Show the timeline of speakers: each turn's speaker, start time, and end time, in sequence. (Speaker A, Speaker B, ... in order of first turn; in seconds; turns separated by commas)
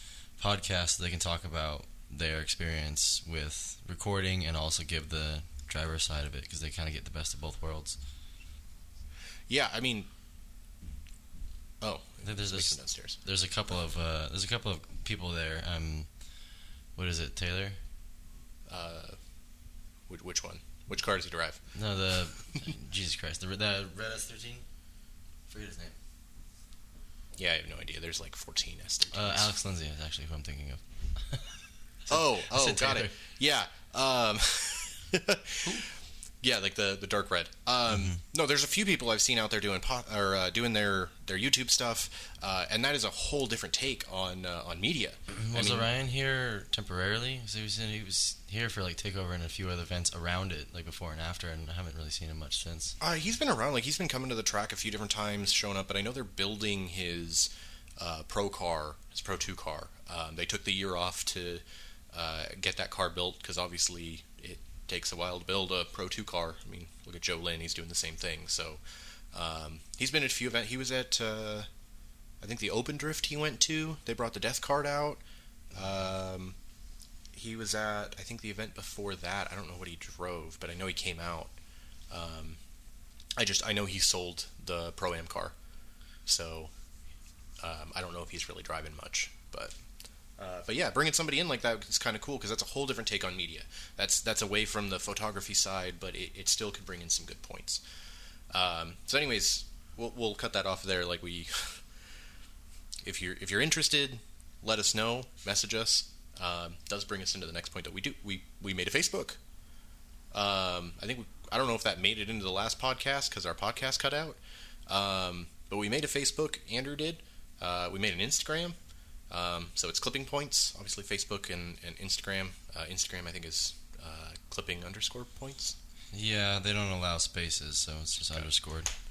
Speaker A: 0.4-8.0, Speaker B: 9.5-10.1, Speaker B: 11.8-13.2, Speaker A: 12.2-16.1, Speaker A: 16.9-17.8, Speaker B: 18.7-19.2, Speaker B: 20.1-21.6, Speaker A: 21.7-24.6, Speaker A: 25.5-26.0, Speaker B: 27.4-29.5, Speaker A: 29.1-31.6, Speaker B: 32.1-35.8, Speaker A: 32.1-33.1, Speaker B: 36.4-45.9, Speaker A: 37.9-38.2, Speaker A: 45.3-53.0, Speaker B: 53.0-68.8, Speaker B: 69.3-71.7, Speaker B: 72.4-76.5, Speaker B: 77.3-81.5, Speaker B: 82.1-82.6, Speaker B: 83.4-85.5, Speaker B: 86.2-86.7, Speaker B: 87.6-89.7, Speaker B: 90.4-97.8, Speaker B: 98.5-101.8, Speaker B: 103.0-109.4, Speaker B: 110.3-118.8, Speaker B: 119.3-125.8, Speaker A: 126.1-128.9